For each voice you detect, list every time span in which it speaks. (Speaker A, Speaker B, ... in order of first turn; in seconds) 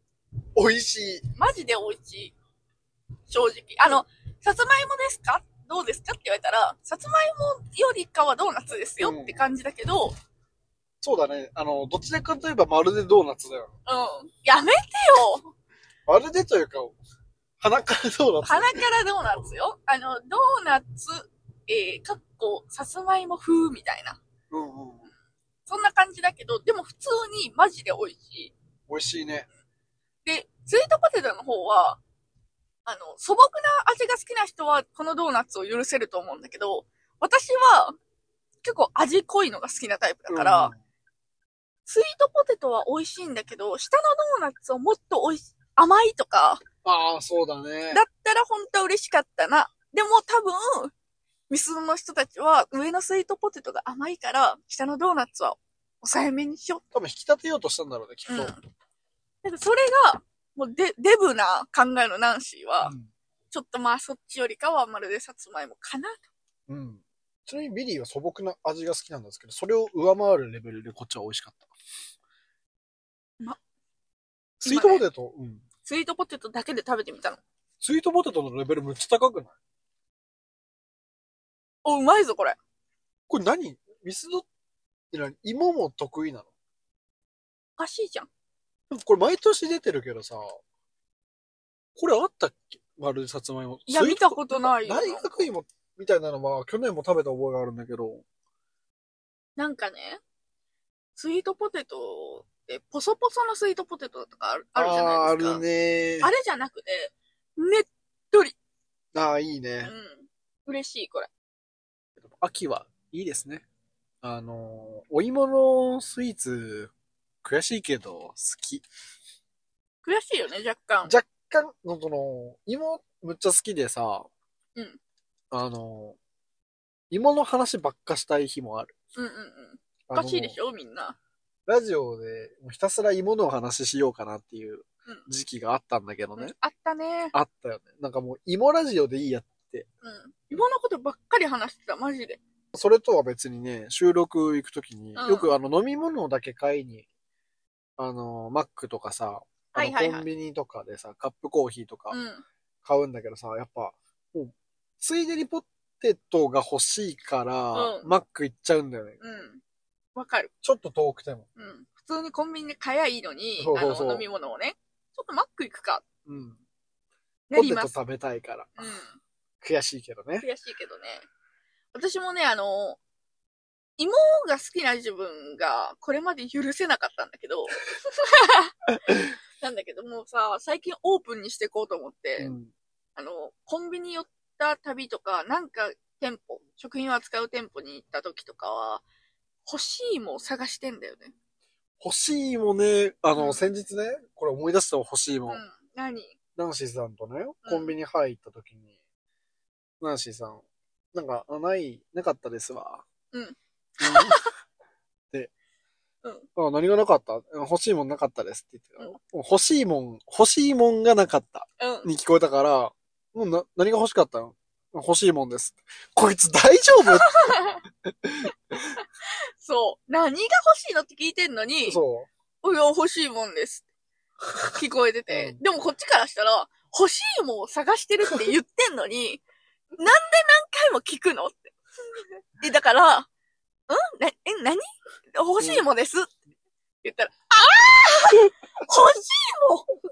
Speaker A: 0.6-1.2, 9.0-9.5, 11.0-13.7, 16.1-16.9, 17.6-18.9, 24.5-25.1, 28.9-29.5, 40.3-40.7, 46.8-48.0, 56.9-58.5, 62.8-63.1, 66.7-71.7, 74.6-75.6, 77.8-79.5, 83.3-84.4, 85.1-86.5, 88.9-90.6, 92.0-98.2, 104.8-106.3, 109.1-109.9, 112.2-113.6, 114.2-116.9, 117.4-118.8, 121.0-124.3, 125.5-126.2, 127.1-128.9, 130.1-130.6, 131.7-136.5, 137.3-139.9, 142.7-147.1, 148.0-152.2, 152.8-159.2, 160.6-161.4, 163.6-164.2, 166.2-166.6, 167.5-168.9, 169.6-170.4, 182.4-182.7, 192.0-195.6, 196.6-198.8, 200.0-200.6, 201.1-203.0, 204.0-204.4, 206.6-217.6, 218.2-218.5, 221.8-222.3, 225.3-225.6, 235.6-235.8
Speaker B: 1.3-2.3, 3.3-10.1, 13.8-15.5, 18.4-24.2, 25.7-28.5, 30.2-32.0, 32.8-37.9, 38.6-40.7, 41.9-46.6, 47.9-50.9, 51.5-56.8, 58.3-58.6, 59.4-62.9, 63.5-66.2, 74.6-75.0, 75.8-77.4, 81.8-82.6, 87.8-88.3, 93.9-95.5, 99.6-100.2, 101.2-105.6, 106.2-108.5, 109.8-111.3, 120.0-121.1, 129.2-131.2, 136.4-137.3, 140.0-142.4, 145.2-145.5, 149.7-150.3, 152.1-152.4, 157.7-158.1, 159.2-159.6, 160.1-160.5, 161.6-166.0, 167.5-167.9, 168.8-169.2, 170.4-171.2, 171.9-173.0, 174.0-178.7, 179.6-182.5, 183.2-189.0, 189.7-191.3, 193.3-193.7, 195.5-196.3, 197.6-197.9, 203.3-204.5, 211.8-212.1, 217.1-217.8, 219.6-222.0, 222.6-223.8, 224.8-229.4, 230.0-231.7, 232.6-233.3, 233.9-234.8, 235.3-236.3, 237.0-239.9